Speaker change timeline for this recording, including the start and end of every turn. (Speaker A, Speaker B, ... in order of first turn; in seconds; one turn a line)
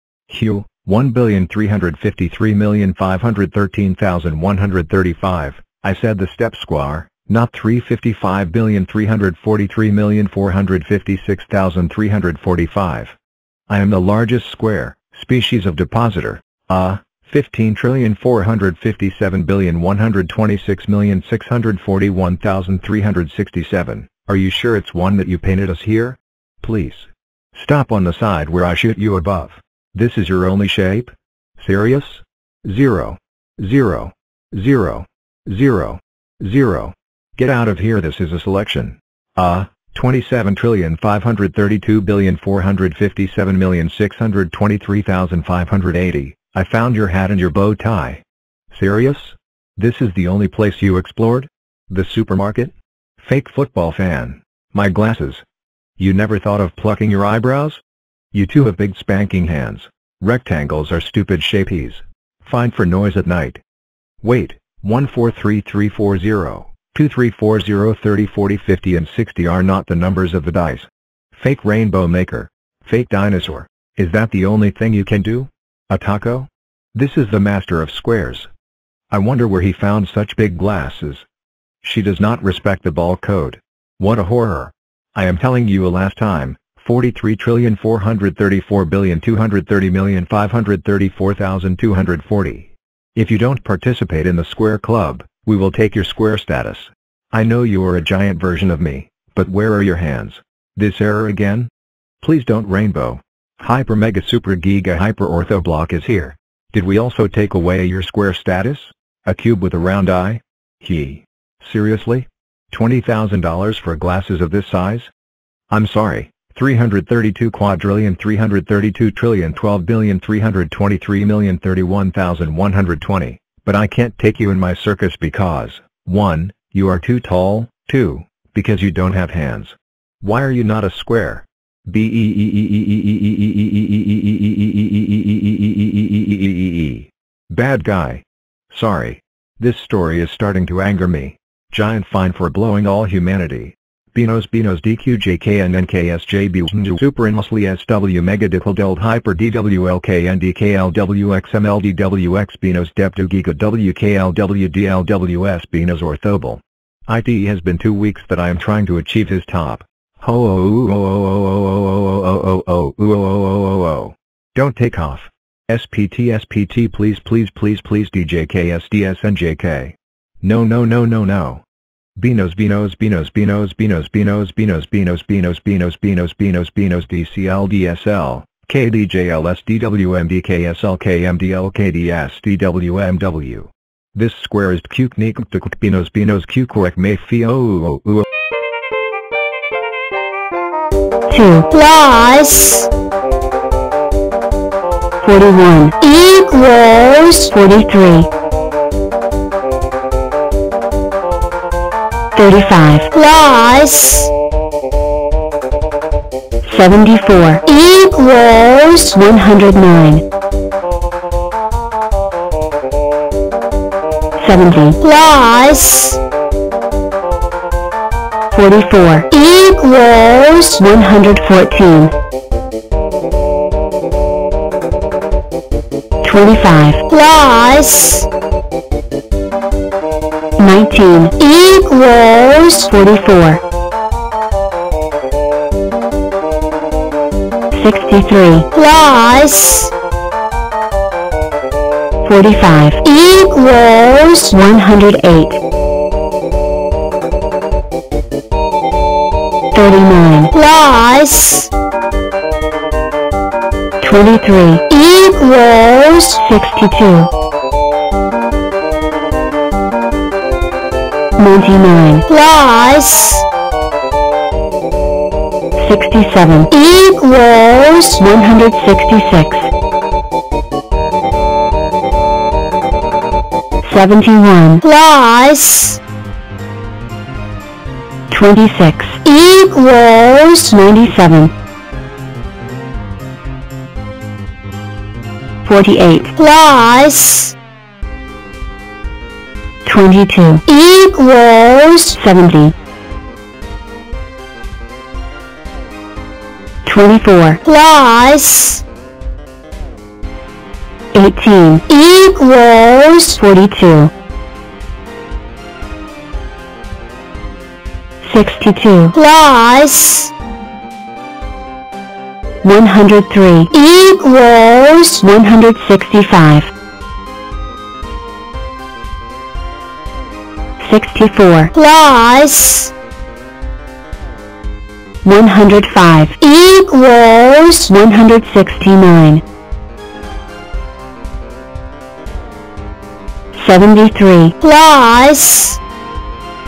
Speaker A: 0.3-13.2
Speaker A: 13.7-55.4
Speaker A: 56.0-57.8
Speaker A: 58.3-63.6
Speaker A: 64.2-78.5
Speaker A: 79.1-81.3
Speaker A: 81.8-115.1
Speaker A: 115.7-171.6
Speaker A: 172.2-188.3
Speaker B: 191.3-191.7
Speaker C: 191.7-192.9
Speaker B: 195.2-198.3
Speaker C: 196.5-196.9
Speaker B: 202.3-203.2
Speaker C: 203.3-204.3
Speaker B: 206.6-210.2
Speaker B: 214.4-215.0
Speaker C: 215.1-216.2
Speaker B: 218.5-222.1
Speaker B: 226.2-227.1
Speaker C: 227.1-228.2
Speaker B: 230.6-233.6
Speaker C: 231.9-232.3
Speaker B: 237.7-238.8
Speaker C: 238.8-239.9
Speaker B: 242.2-245.6
Speaker B: 249.7-250.6
Speaker C: 250.6-251.7
Speaker B: 254.0-257.3
Speaker B: 261.4-262.3
Speaker C: 262.3-263.4
Speaker B: 265.8-269.7
Speaker B: 273.8-274.9
Speaker C: 274.9-276.0
Speaker B: 278.3-281.5
Speaker B: 285.6-286.4
Speaker C: 286.4-287.5
Speaker B: 289.8-290.8
Speaker C: 290.9-291.7
Speaker B: 291.7-292.7
Speaker B: 296.8-297.6
Speaker C: 297.7-298.8
Speaker B: 301.1-304.1
Speaker B: 308.2-309.2
Speaker C: 309.2-310.3
Speaker B: 312.6-314.1
Speaker C: 314.1-314.7
Speaker B: 314.7-316.7
Speaker B: 320.8-321.8
Speaker C: 321.8-322.9
Speaker B: 325.2-329.4
Speaker B: 333.5-334.7
Speaker C: 334.7-335.8